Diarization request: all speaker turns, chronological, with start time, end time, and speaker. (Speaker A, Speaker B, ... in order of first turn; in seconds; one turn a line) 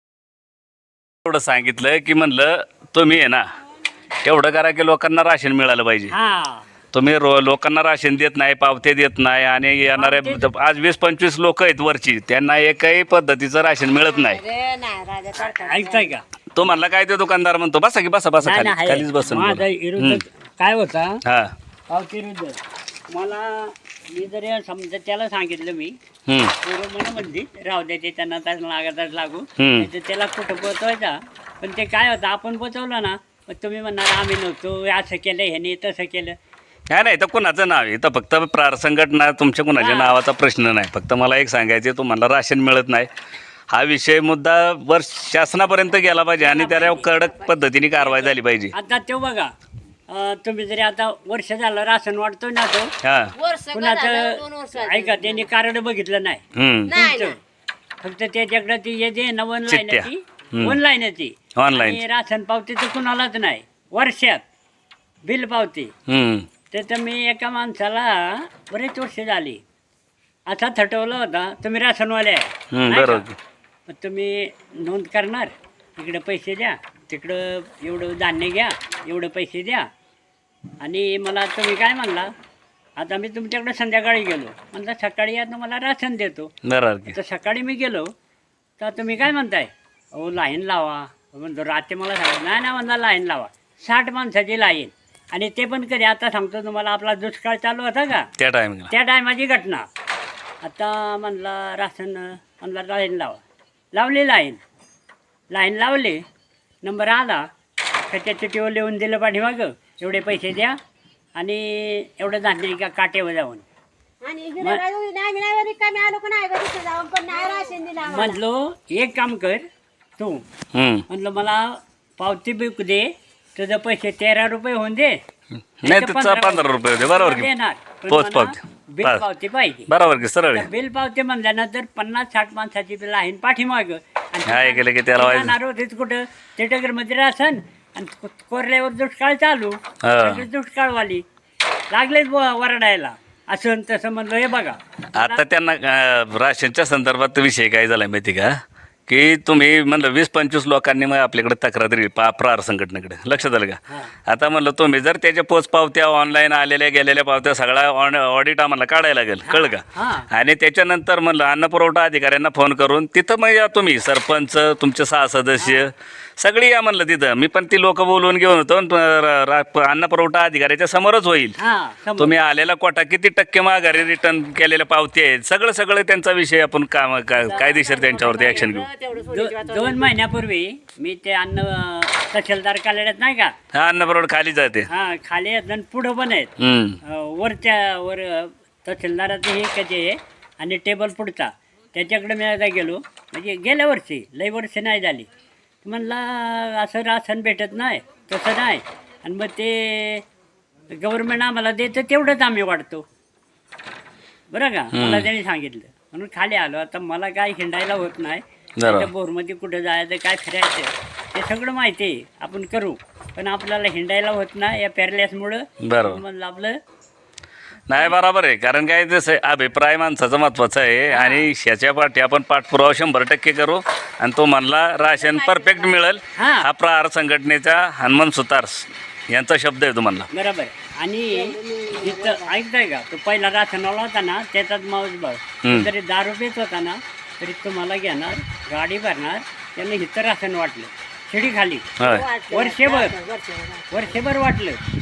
Speaker A: 1.2-3.5
Speaker A: 4.2-6.1
Speaker B: 6.1-6.6
Speaker A: 6.9-14.4
Speaker B: 10.0-10.5
Speaker C: 14.1-16.1
Speaker B: 15.5-16.2
Speaker A: 16.6-20.2
Speaker B: 18.4-21.2
Speaker A: 21.2-21.5
Speaker B: 21.9-26.0
Speaker A: 26.3-26.5
Speaker B: 26.6-36.4
Speaker A: 29.6-29.9
Speaker A: 36.9-43.1
Speaker B: 39.8-40.2
Speaker A: 43.7-48.7
Speaker C: 46.5-47.5
Speaker B: 48.7-49.5
Speaker B: 50.1-52.9
Speaker A: 53.0-53.3
Speaker C: 53.3-55.5
Speaker B: 53.7-56.4
Speaker A: 56.6-56.9
Speaker C: 56.9-57.4
Speaker B: 56.9-57.4
Speaker B: 58.0-64.4
Speaker A: 59.7-60.8
Speaker A: 61.5-62.0
Speaker B: 65.2-65.9
Speaker A: 66.1-66.5
Speaker B: 66.7-69.6
Speaker B: 70.5-73.3
Speaker A: 72.7-73.4
Speaker B: 73.9-79.9
Speaker B: 80.8-82.3
Speaker B: 83.0-86.5
Speaker A: 86.7-87.2
Speaker B: 87.1-88.1
Speaker B: 88.8-98.3
Speaker A: 98.4-98.9
Speaker B: 98.9-99.9
Speaker B: 100.6-103.4
Speaker B: 103.9-104.6
Speaker B: 105.5-106.2
Speaker B: 106.8-107.5
Speaker B: 108.1-110.8
Speaker B: 111.4-113.6
Speaker C: 114.2-118.4
Speaker B: 118.0-119.6
Speaker B: 120.2-120.4
Speaker A: 120.7-121.0
Speaker B: 121.1-125.2
Speaker A: 125.8-127.5
Speaker B: 125.8-129.9
Speaker A: 128.1-129.2
Speaker A: 129.9-130.7
Speaker B: 130.5-141.2
Speaker A: 134.5-135.5
Speaker A: 140.0-140.4
Speaker B: 141.9-145.4
Speaker A: 145.1-148.6
Speaker A: 149.1-171.6
Speaker B: 159.4-160.3
Speaker B: 171.6-172.3
Speaker A: 172.2-178.9
Speaker C: 177.4-180.2
Speaker B: 179.2-183.5
Speaker A: 183.7-184.9
Speaker B: 184.9-186.5
Speaker A: 186.6-187.0
Speaker B: 187.0-195.3
Speaker B: 195.8-200.2
Speaker B: 200.9-203.0
Speaker B: 204.5-216.8
Speaker A: 204.9-205.3
Speaker A: 208.8-209.1
Speaker A: 215.8-216.2
Speaker A: 217.9-230.3
Speaker B: 221.1-221.5
Speaker C: 225.2-225.9
Speaker B: 226.3-226.7
Speaker B: 230.3-241.9
Speaker C: 231.3-232.5
Speaker A: 242.0-242.3
Speaker C: 242.0-244.0
Speaker B: 242.5-243.1
Speaker B: 243.9-244.8